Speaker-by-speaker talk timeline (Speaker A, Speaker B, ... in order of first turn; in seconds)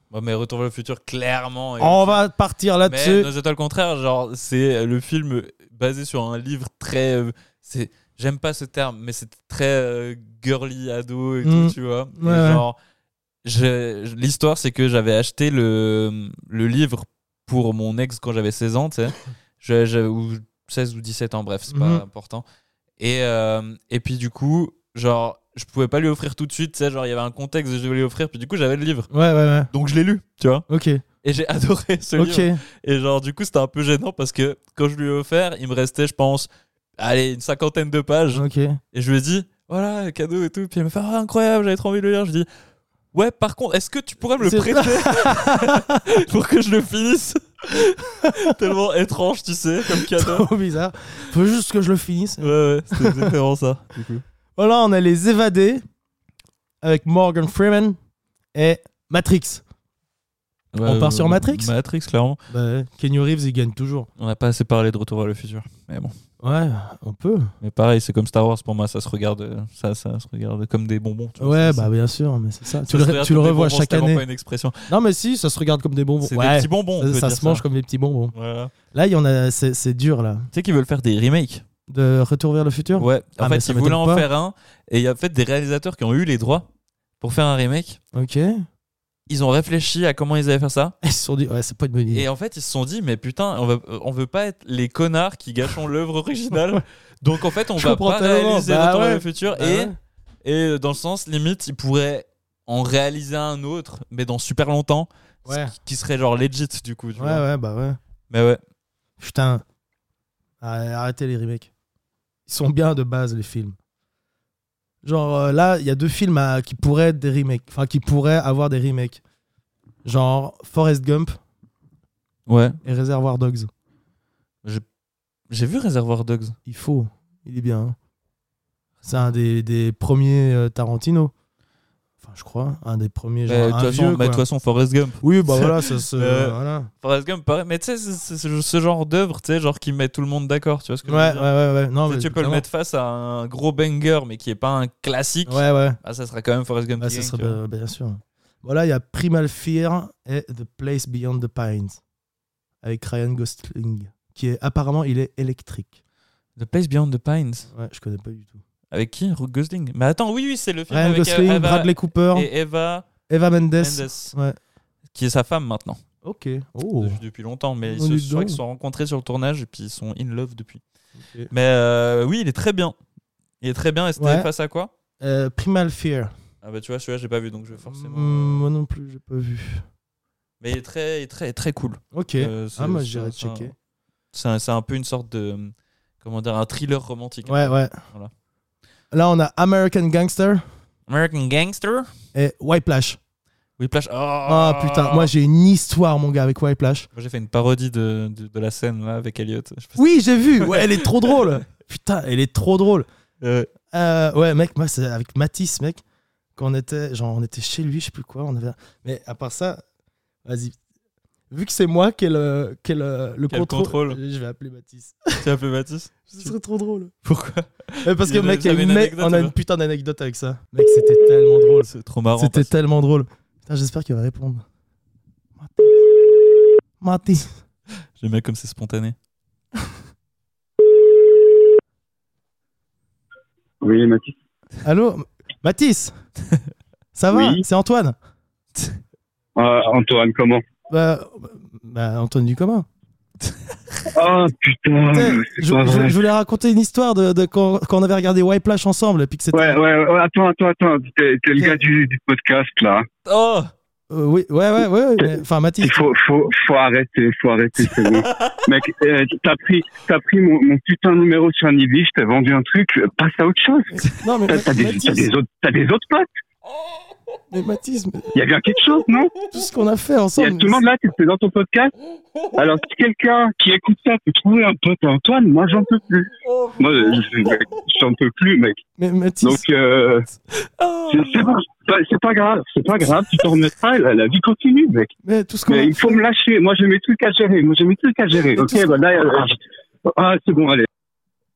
Speaker A: 0.1-2.2, 2.9-12.8, 13.4-22.4, 23.0-29.1, 29.7-30.7, 31.2-42.5, 43.1-50.5, 52.4-54.2, 60.7-62.4, 64.2-66.1, 67.6-71.9, 72.9-74.9, 76.2-77.6, 78.3-78.7, 80.5-81.7, 83.0-86.7, 87.2-88.0, 89.3-91.0, 92.1-99.9, 100.4-107.4, 108.3-108.6, 122.5-122.8, 125.5-126.6, 133.5-141.5, 142.1-147.6, 156.6-157.7, 158.9-163.1, 163.8-164.3, 165.1-166.0, 167.0-170.8, 171.5-172.9, 173.6-174.9, 176.6-178.7, 180.6-183.7, 184.3-188.3, 191.1-192.1, 193.8-195.3, 197.1-200.0, 200.6-201.4, 203.4-203.7, 213.5-214.2, 215.4-216.6, 217.2-219.6, 221.8-222.7, 228.2-229.2, 253.3-253.7, 257.8-258.6, 276.4-277.7, 280.8-281.5
Speaker B: 1.8-3.3, 11.4-12.6, 21.7-22.0, 29.1-29.7, 30.7-31.0, 32.2-32.6, 38.3-38.8, 44.4-46.0, 48.2-48.5, 49.9-53.3, 54.6-55.8, 56.8-58.0, 58.5-59.6, 60.8-61.7, 62.5-64.1, 66.4-67.5, 71.4-74.2, 74.9-78.3, 78.9-80.5, 81.9-84.3, 88.1-88.7, 91.0-92.3, 96.5-96.8, 97.8-100.0, 105.5-105.7, 107.2-108.0, 109.2-109.6, 110.6-111.7, 112.5-113.8, 115.0-119.2, 120.0-121.4, 122.8-123.7, 126.7-128.0, 129.1-131.3, 132.2-134.4, 135.2-136.9, 141.1-142.6, 145.5-146.0, 147.0-152.0, 152.8-155.9, 157.7-158.6, 160.9-162.5, 163.3-164.6, 166.2-167.2, 167.9-168.6, 171.2-171.5, 174.2-174.5, 175.2-176.3, 177.8-179.8, 182.1-183.7, 187.4-188.0, 189.1-190.6, 192.3-193.2, 194.5-197.1, 200.0-203.1, 203.9-206.0, 206.6-209.8, 210.4-210.8, 211.5-215.4, 216.3-217.2, 218.0-224.6, 225.6-226.1, 227.0-227.6, 234.8-236.1, 237.2-238.2, 240.9-242.9, 245.1-249.8, 251.6-251.8, 254.1-256.1, 263.9-265.3, 267.5-268.3, 269.5-270.8, 279.0-279.6, 285.2-286.2, 288.6-288.9
Speaker C: 233.8-234.3, 237.3-237.6, 239.6-240.6, 244.1-246.2, 249.5-253.1, 255.8-266.3, 268.3-269.4, 270.4-271.9, 272.5-278.8, 279.4-280.2, 281.1-285.1, 285.7-290.9